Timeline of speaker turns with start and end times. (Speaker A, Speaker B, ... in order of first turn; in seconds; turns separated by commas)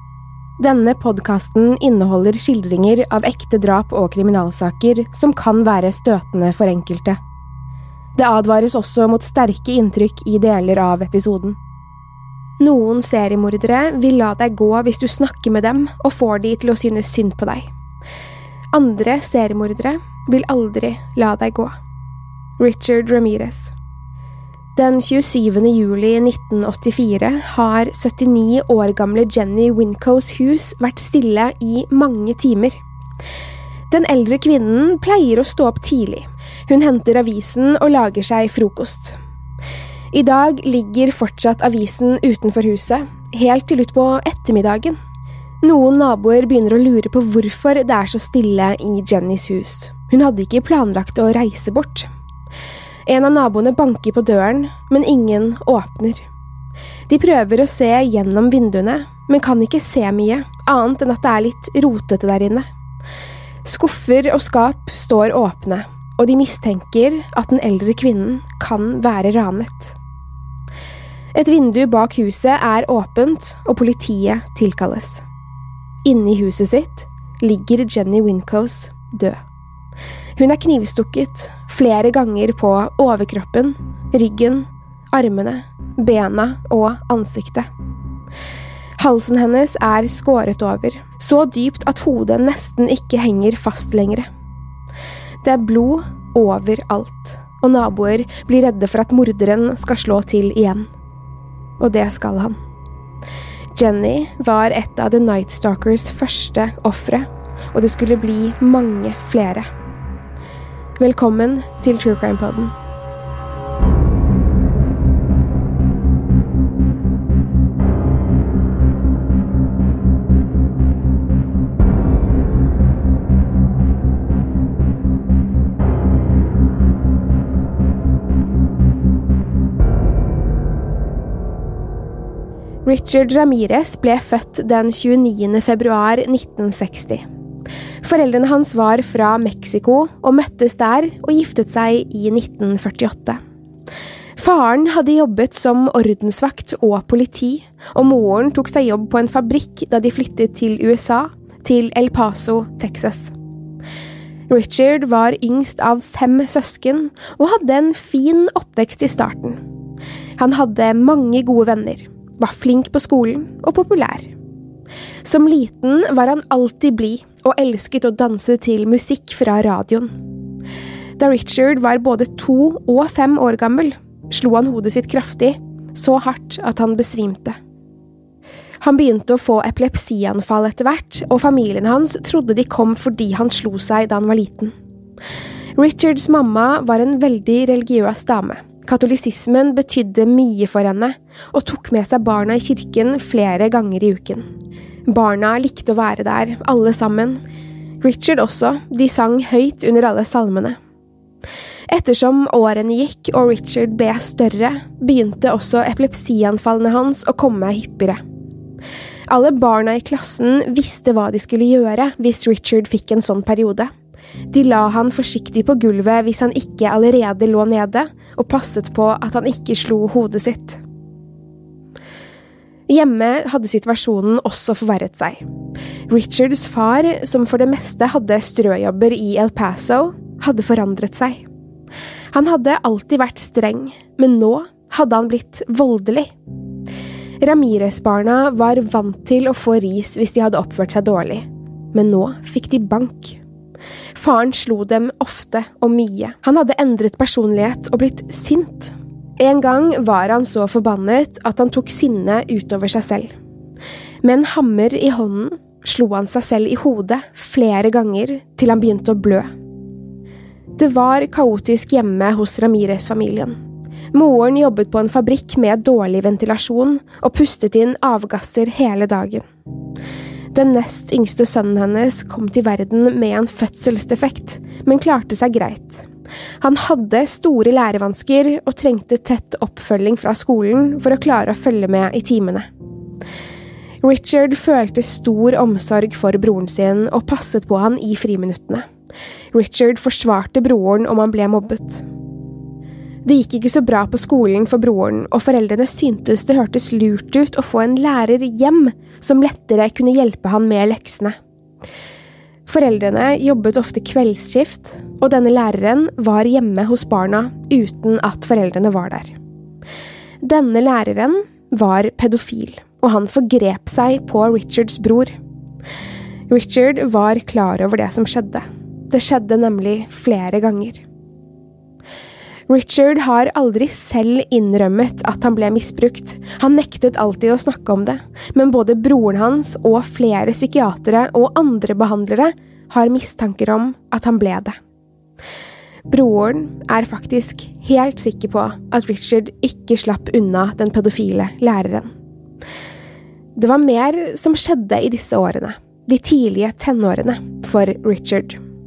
Speaker A: 0.6-7.2, Speaker A: 8.2-11.6, Speaker A: 12.6-17.7, Speaker A: 18.7-21.7, Speaker A: 22.6-23.7, Speaker A: 24.8-32.8, Speaker A: 33.9-39.1, Speaker A: 40.1-45.0, Speaker A: 45.6-52.1, Speaker A: 53.1-56.2, Speaker A: 57.1-62.6, Speaker A: 63.6-70.0, Speaker A: 71.3-75.2, Speaker A: 76.0-79.4, Speaker A: 80.4-87.7, Speaker A: 89.0-94.3, Speaker A: 95.4-100.9, Speaker A: 101.8-102.6, Speaker A: 103.7-109.7, Speaker A: 111.0-112.7, Speaker A: 132.8-137.2, Speaker A: 138.0-143.4, Speaker A: 144.4-153.3, Speaker A: 154.5-159.6, Speaker A: 160.4-164.3, Speaker A: 165.2-170.1, Speaker A: 171.2-177.6, Speaker A: 178.8-184.7, Speaker A: 185.8-194.4, Speaker A: 195.1-197.4, Speaker A: 198.0-200.8, Speaker A: 201.9-208.2, Speaker A: 209.3-213.9, Speaker A: 214.5-220.8, Speaker A: 222.9-225.4, Speaker A: 226.1-231.4, Speaker A: 232.3-236.3, Speaker A: 237.4-243.4, Speaker A: 244.2-253.3, Speaker A: 254.2-259.5, Speaker A: 260.8-263.6, Speaker A: 264.1-269.4, Speaker A: 270.5-276.1, Speaker A: 276.6-282.7, Speaker A: 284.0-288.9, Speaker A: 289.5-292.0, Speaker A: 293.2-301.3, Speaker A: 302.6-309.3, Speaker A: 310.4-315.3, Speaker A: 316.5-321.0, Speaker A: 322.7-334.8, Speaker A: 336.1-342.1, Speaker A: 343.6-348.6